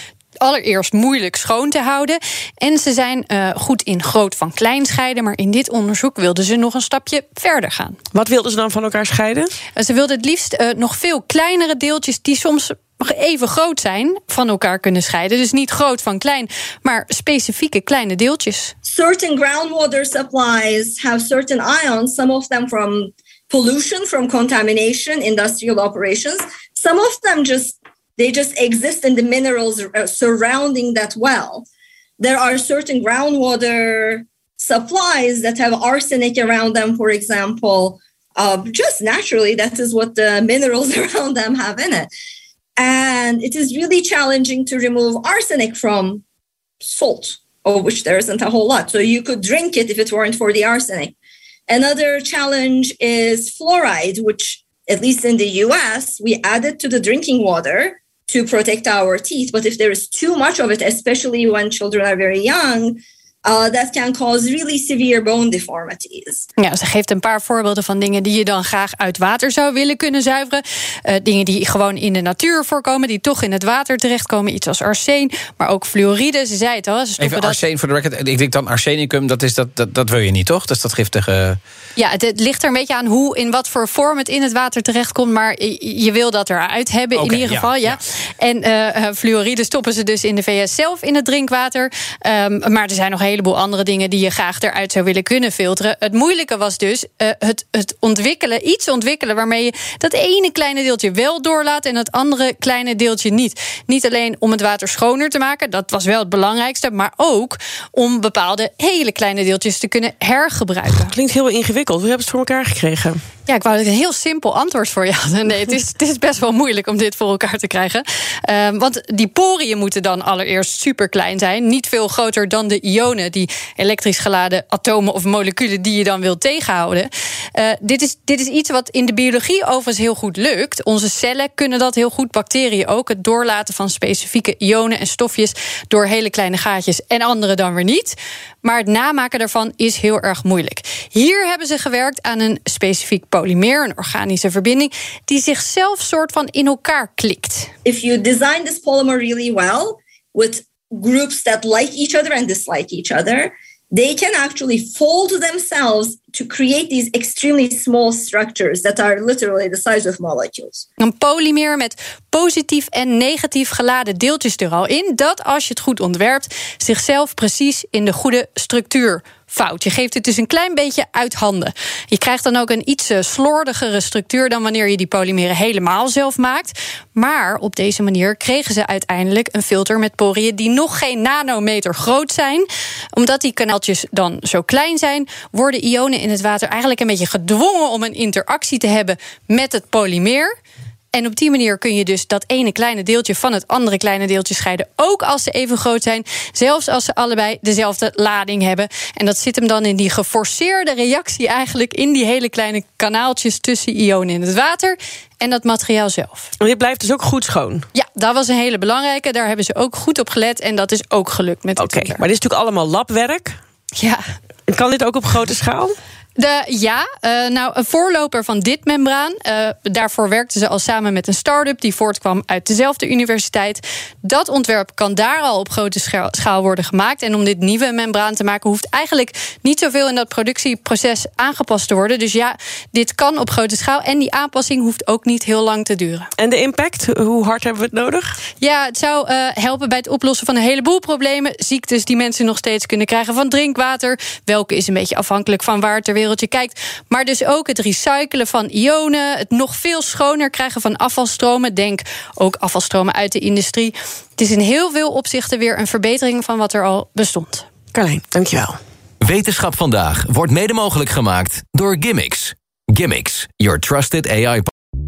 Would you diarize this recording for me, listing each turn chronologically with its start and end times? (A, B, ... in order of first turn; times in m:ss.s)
0:00.4-0:08.0 A
0:08.1-0:09.5 B
0:09.8-0:18.7 A
0:18.8-0:31.7 C
0:32.2-0:42.1 C
0:42.8-0:46.2 C
0:46.8-0:51.2 C
0:51.7-1:06.5 C
1:06.6-1:17.6 A
1:17.2-1:21.6 D
1:22.0-1:51.1 A
1:27.2-1:27.6 D
1:51.1-1:53.2 B
1:53.5-2:27.7 A
2:27.8-2:40.8 C
2:41.0-3:10.5 A
3:11.1-3:26.5 A
3:26.6-3:27.8 B
3:27.9-3:32.2 A
3:31.8-3:33.6 B
3:34.0-3:34.2 A
3:34.7-3:35.9 B
3:36.4-3:56.3 A
3:56.4-3:58.4 B
3:58.6-4:17.6 A
4:17.9-4:18.8 B
4:19.2-4:24.7 E